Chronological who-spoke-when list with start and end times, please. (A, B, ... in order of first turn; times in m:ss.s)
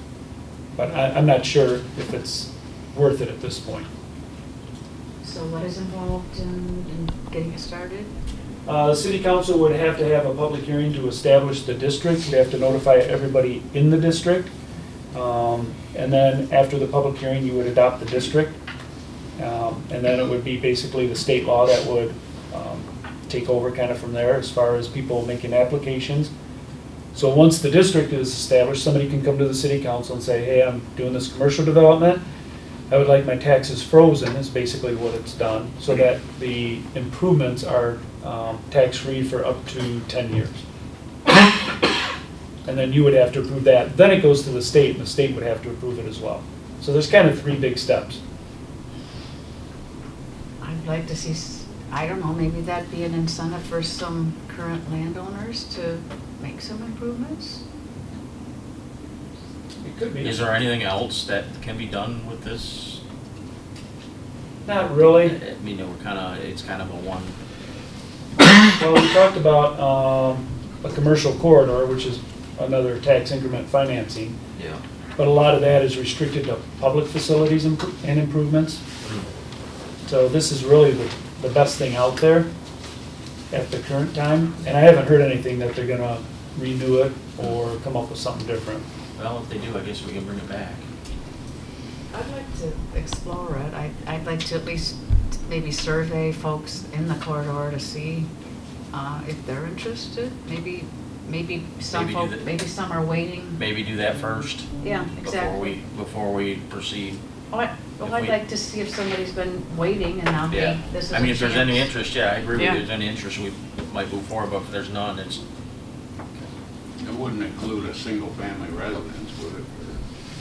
0:00.8-0:03.9 A
0:05.2-0:08.1 B
0:08.6-0:14.5 A
0:15.1-0:18.6 A
0:19.4-0:26.3 A
0:27.1-0:32.2 A
0:32.9-0:40.6 A
0:42.6-0:48.2 A
0:50.6-0:57.6 B
0:59.8-1:00.4 A
1:00.2-1:03.0 C
1:04.6-1:05.4 A
1:05.2-1:07.4 C
1:08.7-1:14.4 A
1:14.6-1:14.8 C
1:15.2-1:18.8 A
1:20.0-1:22.5 A
1:23.5-1:28.8 A
1:29.2-1:30.8 C
1:32.1-1:38.3 B
1:38.9-1:43.6 B
1:41.9-1:42.5 C
1:43.6-1:47.2 C
1:44.8-1:45.8 B
1:47.5-1:51.9 B
1:48.0-1:48.4 C
1:50.5-1:55.4 C
1:52.6-1:52.8 B
1:57.0-2:00.0 D